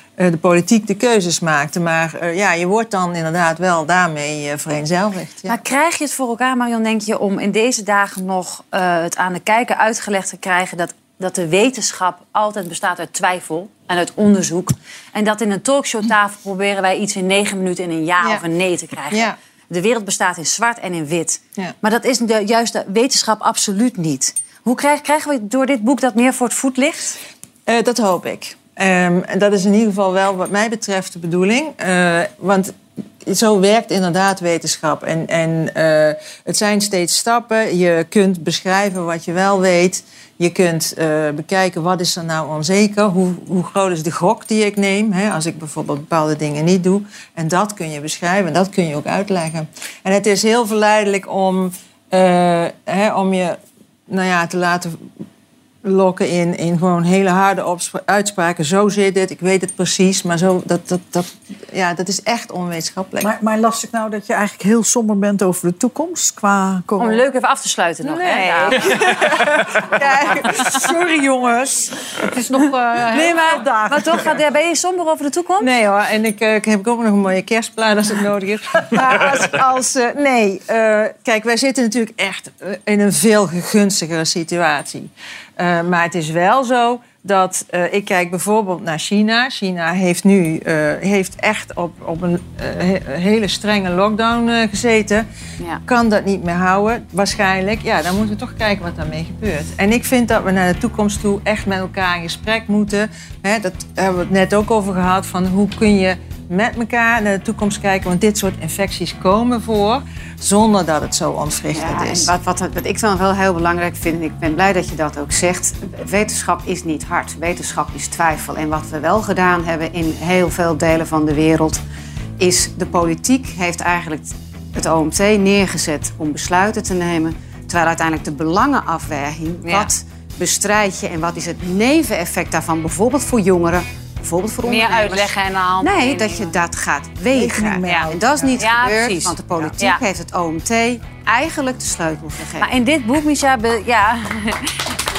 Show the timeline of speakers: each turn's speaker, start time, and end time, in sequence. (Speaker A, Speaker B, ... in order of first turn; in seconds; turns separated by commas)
Speaker A: 0.2-5.6, Speaker B: 5.5-27.2, Speaker A: 19.1-19.4, Speaker A: 27.7-53.6, Speaker A: 54.1-55.0, Speaker A: 55.8-63.3, Speaker C: 63.2-67.2, Speaker B: 67.0-69.0, Speaker C: 68.2-74.2, Speaker A: 68.3-70.8, Speaker B: 73.1-75.7, Speaker A: 75.6-95.2, Speaker A: 95.8-112.3, Speaker D: 111.7-121.8, Speaker D: 122.4-142.7, Speaker B: 129.6-129.9, Speaker B: 134.6-136.6, Speaker C: 137.3-138.4, Speaker B: 137.9-140.0, Speaker B: 142.6-144.8